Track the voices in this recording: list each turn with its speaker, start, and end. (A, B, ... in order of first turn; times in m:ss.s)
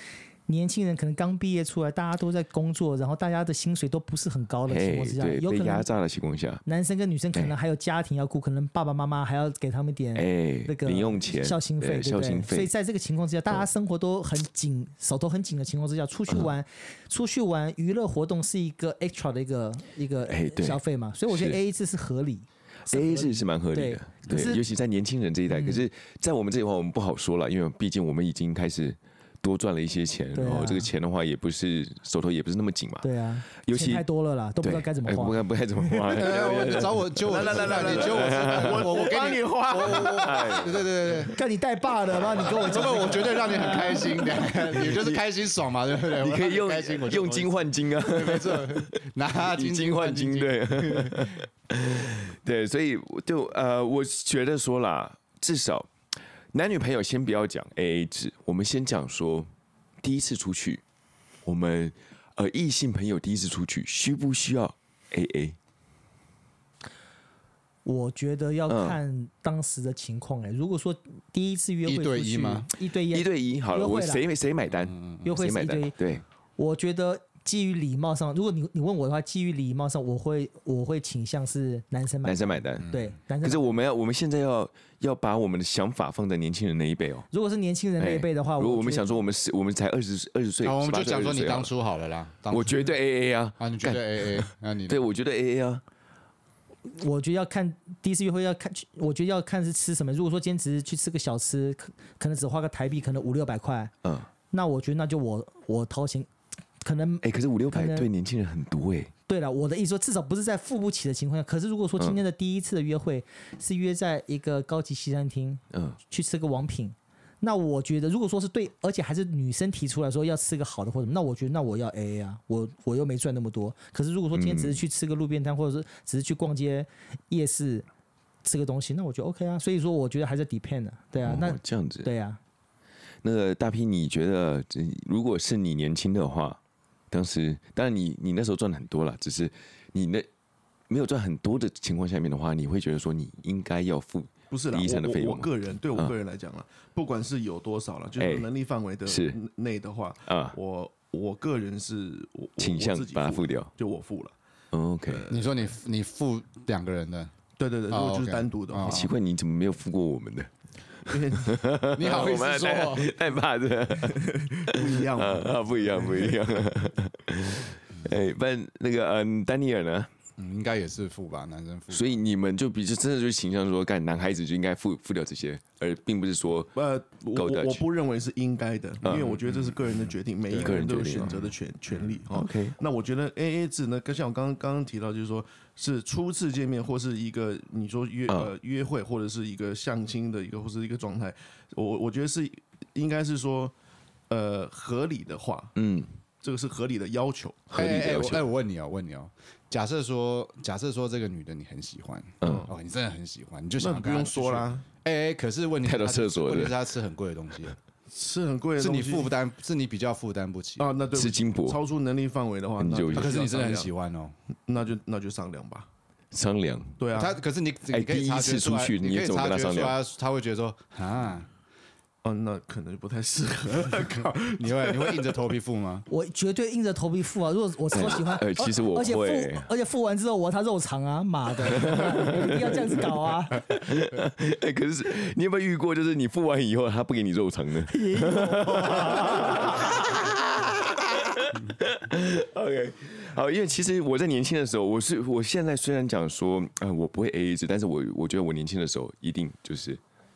0:00.5-0:05.9 A
0:04.7-0:06.6 B
0:06.6-0:24.6 A
0:10.2-0:12.7 B
0:20.3-0:21.6 B
0:22.9-0:33.1 B
0:25.5-0:25.8 A
0:30.3-0:30.9 A
0:33.0-0:36.1 A
0:33.6-0:34.0 B
0:34.6-0:39.2 B
0:36.1-0:41.3 C
0:37.3-0:40.8 D
0:39.8-0:40.7 B
0:41.3-0:44.5 A
0:42.3-0:51.3 C
0:44.7-0:45.2 B
0:46.1-0:55.9 B
0:56.5-0:59.5 B
1:00.0-1:00.8 B
1:01.4-1:05.6 B
1:07.8-1:14.2 A
1:08.7-1:09.0 B
1:11.8-1:12.7 C
1:13.1-1:16.2 B
1:14.9-1:15.2 C
1:15.2-1:16.0 A
1:16.6-1:23.7 A
1:22.2-1:22.9 B
1:22.8-1:23.1 C
1:23.4-1:27.3 B
1:27.3-1:29.1 A
1:28.0-1:31.7 B
1:30.6-1:32.9 C
1:32.5-1:35.8 B
1:33.6-1:35.0 C
1:36.9-1:43.9 A
1:44.0-1:44.3 B
1:44.5-1:46.3 A
1:46.8-1:48.1 A
1:47.2-1:49.1 B
1:49.3-2:07.9 A
1:55.7-1:56.0 B
2:04.3-2:04.8 B
2:08.4-2:12.4 A
2:11.2-2:12.1 B
2:13.2-2:16.6 B
2:17.1-2:20.3 B
2:20.9-2:26.1 B
2:24.5-2:34.4 D
2:28.2-2:28.5 B
2:29.1-2:29.4 B
2:30.3-2:30.6 B
2:32.6-2:33.7 B
2:34.7-2:35.3 B
2:35.1-2:35.7 D
2:35.3-2:37.3 C
2:37.6-2:39.1 D
2:37.9-2:39.1 C
2:38.8-2:40.5 B
2:41.1-2:50.1 B
2:41.1-2:42.0 D
2:42.0-2:43.1 C
2:44.0-2:46.4 D
2:50.4-2:52.1 C
2:51.9-2:56.7 B
2:56.8-3:13.7 D
2:57.4-2:57.8 B
2:59.0-2:59.4 B
3:00.5-3:01.5 C
3:00.5-3:01.4 B
3:02.3-3:02.8 B
3:08.3-3:08.5 B
3:14.3-3:15.7 D
3:15.8-3:16.1 B
3:16.4-3:17.8 D
3:17.7-3:18.5 B
3:17.7-3:27.8 C
3:22.4-3:22.7 D
3:23.8-3:24.8 D
3:25.8-3:26.8 B
3:28.1-3:29.3 D
3:28.8-3:31.0 C
3:30.8-3:33.9 D
3:31.2-3:31.8 B
3:32.8-3:33.5 B
3:33.1-3:34.4 C
3:34.7-3:35.9 D
3:36.3-3:37.0 B
3:37.0-3:37.4 D
3:37.1-3:41.5 C
3:37.9-3:40.0 B
3:42.2-3:45.3 D
3:43.8-3:46.1 C
3:46.1-3:53.6 A
3:47.9-3:49.7 B
3:51.6-3:52.9 B
3:53.6-4:10.0 B
3:57.8-3:59.8 A